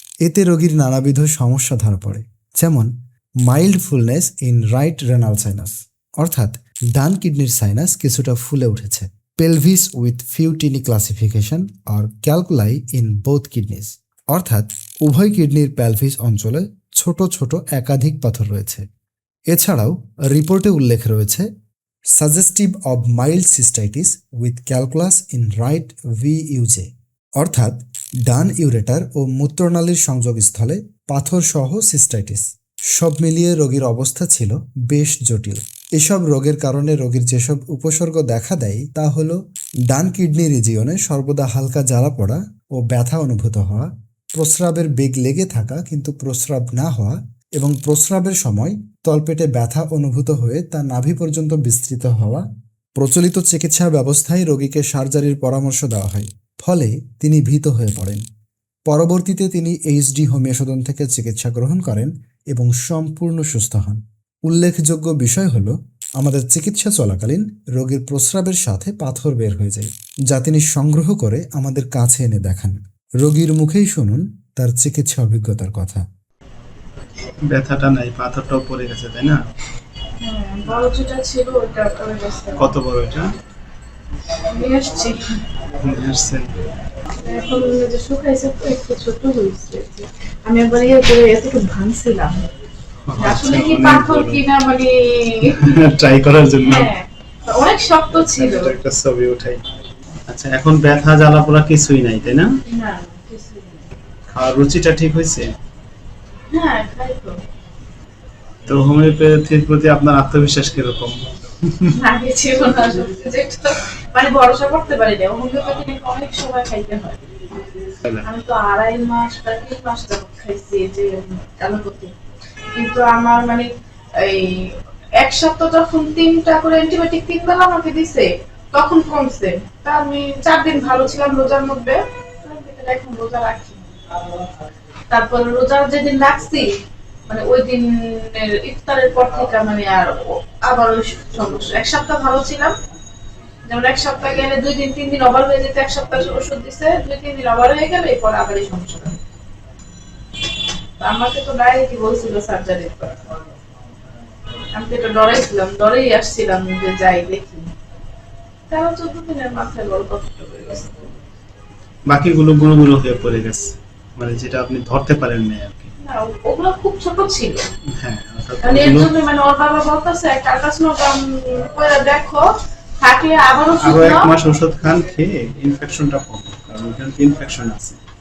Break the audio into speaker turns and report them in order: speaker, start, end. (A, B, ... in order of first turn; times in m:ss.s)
0:00.2-0:02.9 A
0:03.5-0:18.8 A
0:19.5-0:21.5 A
0:22.2-0:32.5 A
0:33.0-0:39.4 A
0:39.9-0:52.5 A
0:53.0-0:58.2 A
0:58.9-1:16.1 A
1:17.5-1:19.4 B
1:20.2-1:22.7 C
1:22.6-1:23.3 B
1:24.5-1:25.2 C
1:25.8-1:26.6 B
1:27.2-1:32.4 C
1:33.1-1:34.4 B
1:33.2-1:35.6 C
1:35.5-1:36.9 B
1:36.6-1:38.7 C
1:38.2-1:39.6 B
1:40.3-1:42.5 B
1:42.7-1:43.8 C
1:44.3-1:45.5 B
1:46.5-1:47.4 C
1:48.7-1:52.0 B
1:51.9-1:57.6 C
1:58.2-2:02.1 C
2:02.7-2:03.7 C
2:04.2-2:14.4 C
2:15.1-2:16.7 C
2:17.3-2:22.8 C
2:23.7-2:29.2 C
2:31.0-2:33.4 C
2:34.8-2:37.7 C
2:38.7-2:41.1 C
2:42.1-2:45.9 B
2:46.0-2:47.7 C
2:47.9-2:49.1 B
2:48.6-2:52.5 C
2:53.0-2:54.3 C
2:53.8-2:58.0 B